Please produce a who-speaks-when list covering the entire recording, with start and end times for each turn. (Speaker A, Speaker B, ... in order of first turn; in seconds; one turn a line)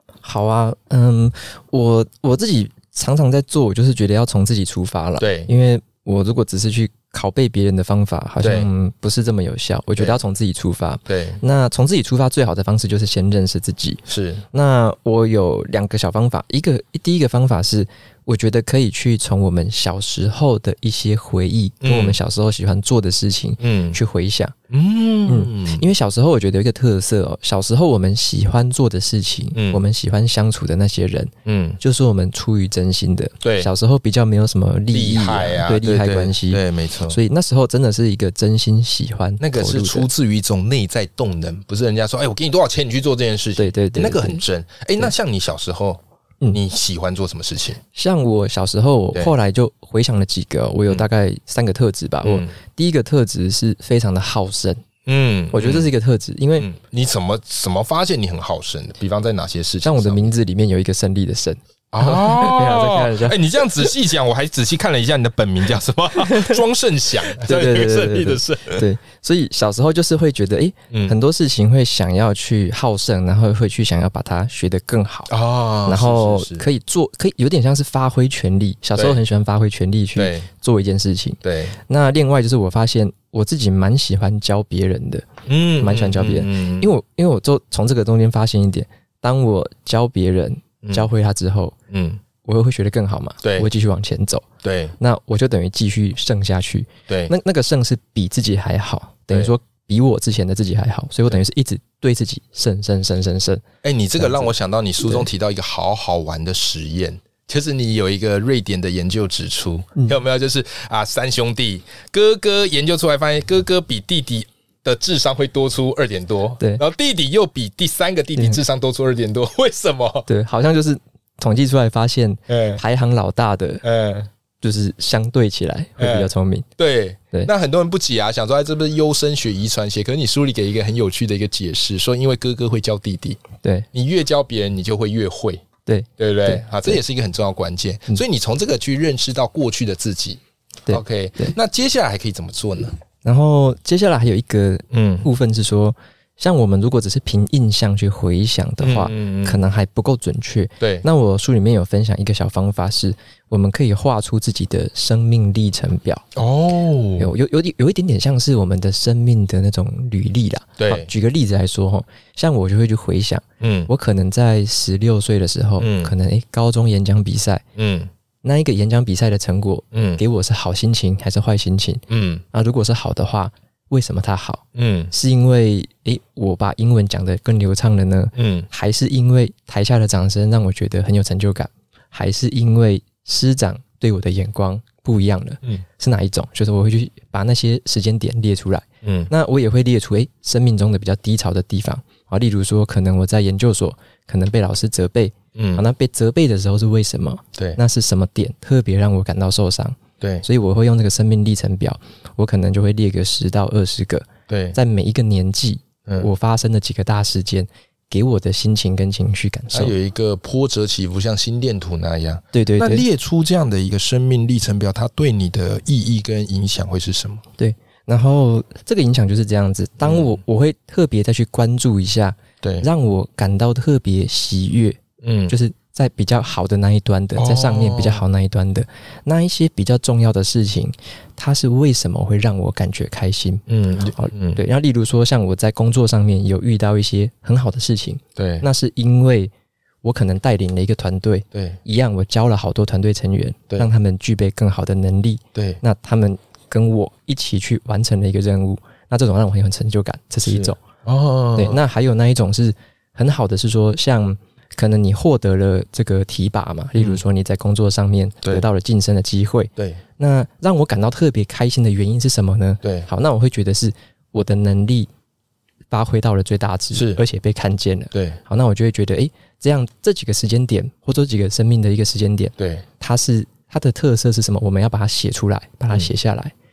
Speaker A: 0.2-14.0
Speaker B: 5.2-5.5
Speaker B: 8.4-8.7
Speaker B: 11.1-11.4
Speaker B: 14.1-14.4
Speaker A: 14.5-24.5
Speaker B: 21.8-22.2
Speaker B: 23.6-24.0
Speaker B: 24.7-25.8
Speaker A: 25.3-40.1
Speaker B: 29.5-29.8
Speaker B: 31.4-31.8
Speaker B: 33.4-33.7
Speaker B: 34.9-37.2
Speaker B: 39.4-47.8
Speaker A: 43.6-44.4
Speaker A: 47.9-54.8
Speaker B: 52.2-52.5
Speaker B: 55.0-55.9
Speaker A: 55.5-56.7
Speaker B: 56.6-60.3
Speaker A: 59.8-63.9
Speaker B: 61.9-68.8
Speaker A: 66.2-66.6
Speaker A: 67.4-75.3
Speaker B: 70.9-71.2
Speaker B: 75.3-76.6
Speaker A: 75.8-85.2
Speaker B: 80.2-80.5
Speaker B: 81.4-81.8
Speaker B: 85.5-86.9
Speaker A: 85.8-91.7
Speaker B: 90.8-91.1
Speaker B: 91.9-92.2
Speaker A: 92.4-94.4
Speaker B: 93.4-93.7
Speaker B: 94.6-95.0
Speaker A: 95.0-103.6
Speaker B: 97.1-97.3
Speaker B: 103.8-120.3
Speaker A: 104.2-105.2
Speaker A: 120.3-123.8
Speaker B: 122.5-122.8
Speaker B: 123.8-124.3
Speaker A: 124.6-126.7
Speaker B: 126.0-133.4
Speaker B: 133.9-135.6
Speaker A: 135.8-137.0
Speaker B: 136.2-142.9
Speaker A: 140.9-141.5
Speaker A: 143.2-156.2
Speaker B: 144.9-145.3
Speaker B: 148.8-149.6
Speaker B: 150.8-151.0
Speaker B: 156.3-157.3
Speaker A: 157.2-167.6
Speaker B: 160.8-161.1
Speaker B: 163.6-163.9
Speaker B: 165.8-166.1
Speaker B: 167.8-168.1
Speaker A: 168.4-209.9
Speaker B: 169.9-170.2
Speaker B: 172.1-172.4
Speaker B: 174.7-175.1
Speaker B: 178.3-178.7
Speaker B: 189.0-189.3
Speaker B: 195.5-195.8
Speaker B: 200.2-200.4
Speaker B: 204.5-204.8
Speaker B: 209.7-217.4
Speaker A: 212.5-213.1
Speaker A: 217.6-233.6
Speaker B: 220.0-220.4
Speaker B: 222.6-222.9
Speaker B: 225.2-225.6
Speaker B: 227.4-228.2
Speaker B: 233.7-234.6
Speaker A: 234.2-239.5
Speaker B: 238.3-238.7
Speaker A: 240.0-250.8
Speaker B: 241.5-241.8
Speaker B: 245.5-245.8
Speaker B: 250.4-251.8
Speaker A: 251.6-265.1
Speaker B: 259.8-260.0
Speaker A: 265.9-276.5
Speaker B: 266.9-267.2
Speaker B: 268.1-268.4
Speaker B: 272.6-272.8